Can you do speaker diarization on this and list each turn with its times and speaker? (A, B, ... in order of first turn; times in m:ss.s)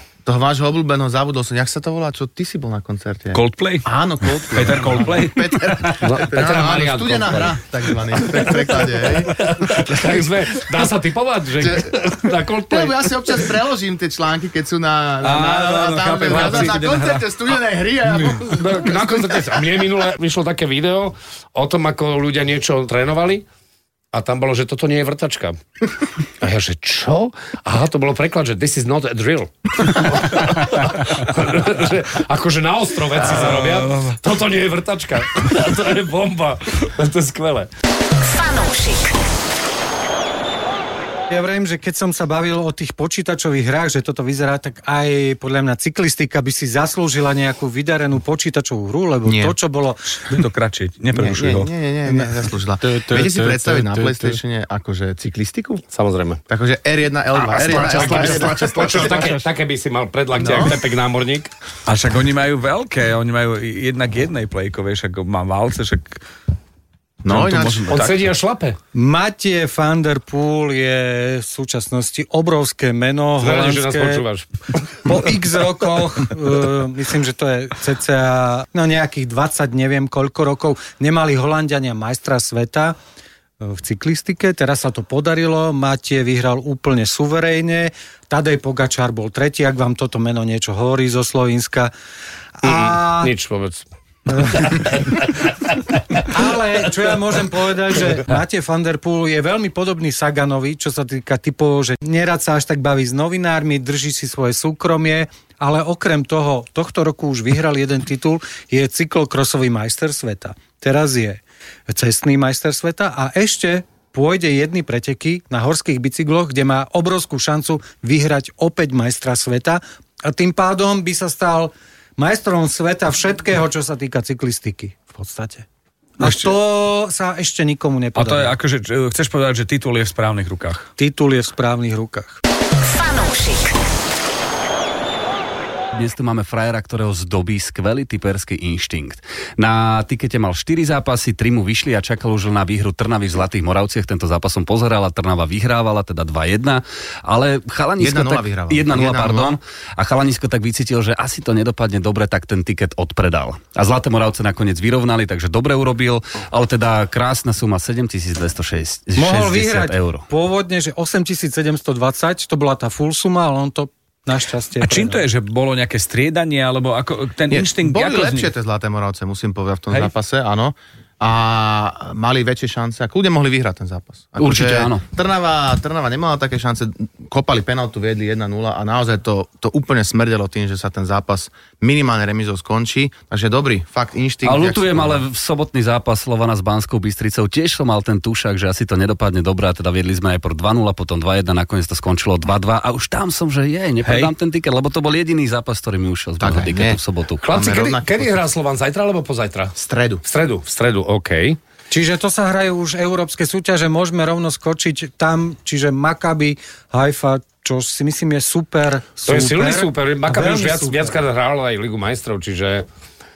0:00.3-0:09.8 A
0:03.3-0:06.1 B
0:06.0-0:07.6 C
0:08.1-0:13.4 C
0:11.6-0:12.1 A
0:12.7-0:19.6 A
0:15.2-0:17.3 B
0:16.3-0:16.7 C
0:18.5-0:23.5 C
0:24.1-0:25.6 C
0:26.4-0:37.7 C
0:33.3-0:34.2 B
0:38.2-0:39.2 D
0:41.3-0:50.0 E
0:49.2-0:49.6 A
0:50.1-0:51.7 B
0:51.1-0:55.8 A
0:53.1-0:54.2 B
0:55.9-0:56.4 C
0:56.5-0:59.4 A
0:57.4-1:01.5 C
0:57.9-0:58.3 B
1:00.4-1:00.8 A
1:01.9-1:06.2 B
1:07.2-1:08.0 A
1:07.3-1:08.3 B
1:07.9-1:08.8 C
1:09.0-1:14.2 E
1:13.4-1:14.5 C
1:15.0-1:23.0 E
1:23.6-1:31.9 E
1:32.6-1:33.3 E
1:32.6-1:33.8 C
1:34.3-1:35.0 E
1:34.4-1:35.5 C
1:36.2-2:05.7 E
2:06.2-2:08.6 E
2:06.2-2:06.6 B
2:08.2-2:10.9 B
2:11.0-2:12.4 E
2:12.8-2:13.8 D
2:15.9-2:40.3 F
2:28.0-2:29.6 A
2:39.2-2:45.2 E
2:44.8-2:48.5 B
2:47.5-3:05.2 A
2:54.4-2:55.0 F
3:04.4-3:17.4 F
3:14.0-3:14.3 B
3:16.4-3:17.0 A
3:17.4-3:21.6 C
3:17.5-3:18.3 A
3:19.8-3:20.2 A
3:21.9-3:31.2 E
3:29.3-3:32.9 C